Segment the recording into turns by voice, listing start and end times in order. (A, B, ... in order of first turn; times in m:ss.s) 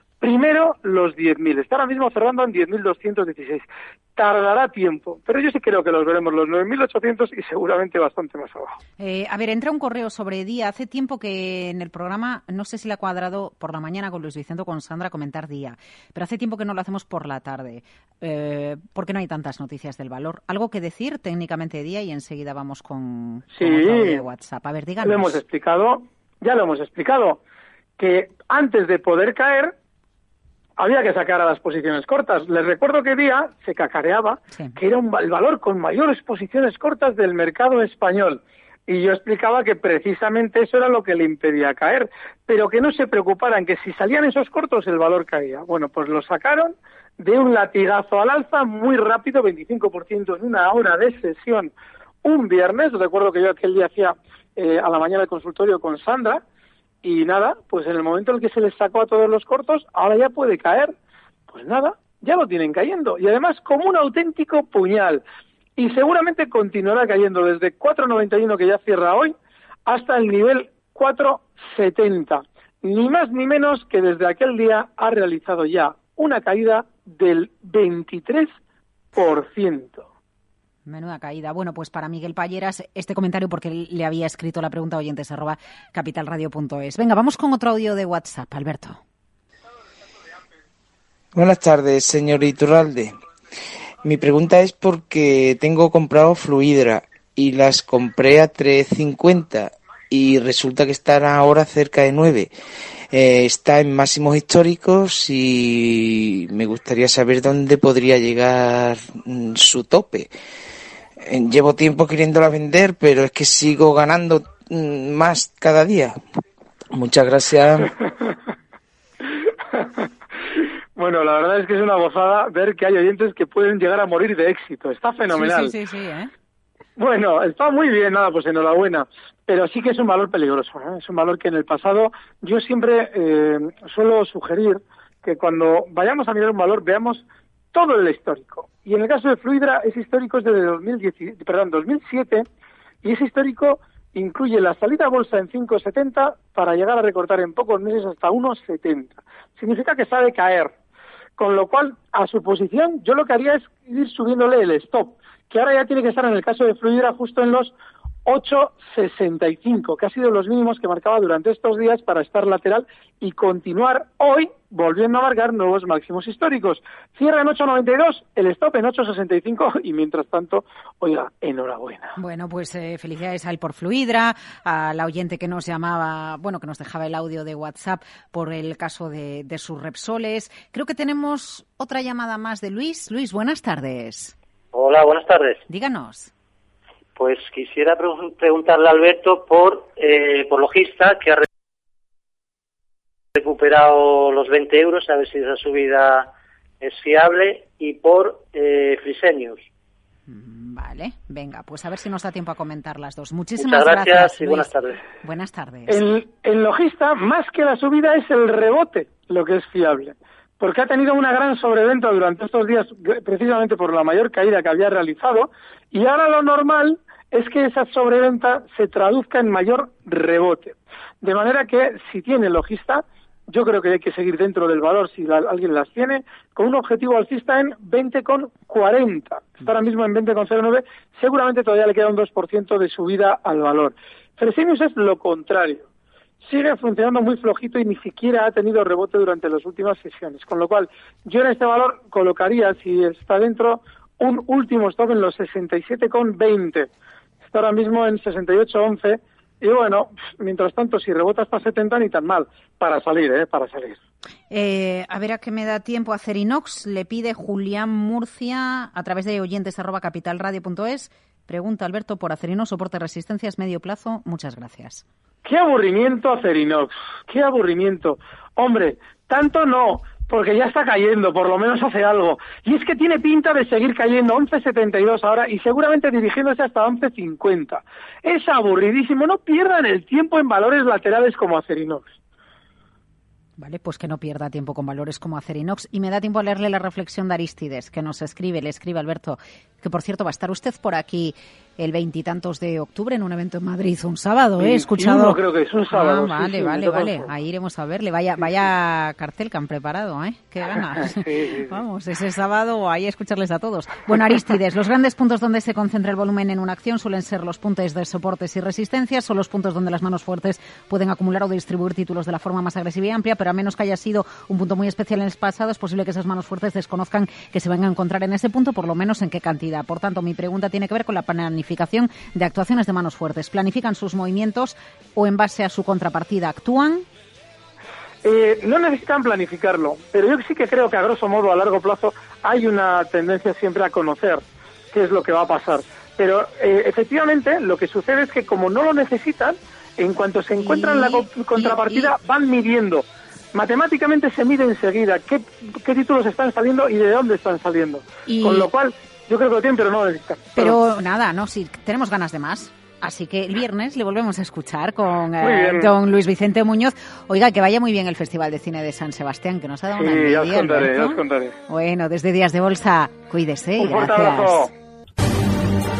0:00.2-0:08.8 A
0:09.0-0:25.4 B
0:23.5-0:24.3 A
0:25.0-0:27.4 A
0:28.0-0:29.8 A
0:30.8-0:51.7 A
0:52.2-0:56.4 A
0:57.0-1:00.9 A
1:01.5-1:05.2 A
1:05.8-1:09.3 A
1:09.9-1:18.5 A
1:19.2-1:20.1 A
1:20.9-1:29.0 B
1:31.3-1:33.1 C
1:34.0-1:42.5 C
1:43.1-1:50.3 C
1:51.2-1:56.2 C
1:56.9-1:57.9 C
1:59.7-2:00.0 A
2:01.0-2:05.7 A
2:05.3-2:06.3 B
2:07.0-2:22.5 A
2:23.0-2:30.7 A
2:31.4-2:37.8 A
2:38.3-2:52.2 A
2:52.2-3:04.4 B
3:04.7-3:05.6 D
3:05.7-3:06.3 B
3:07.2-3:11.5 D
3:13.4-3:16.3 D
3:16.8-3:19.7 D
3:20.3-3:26.1 B
3:23.6-3:25.0 D
3:25.9-3:55.9 A
3:56.4-4:06.9 A
4:07.5-4:14.0 A
4:14.5-4:25.0 B
4:25.4-4:42.2 A
4:43.6-4:55.4 B
4:54.6-4:57.3 A
4:55.9-5:27.0 B
5:01.0-5:01.8 A
5:28.2-5:50.8 A
5:40.6-5:42.1 B
5:48.3-5:48.7 B
5:50.6-6:04.7 B
5:55.4-5:55.9 A
6:00.0-6:01.6 A
6:03.8-6:04.7 A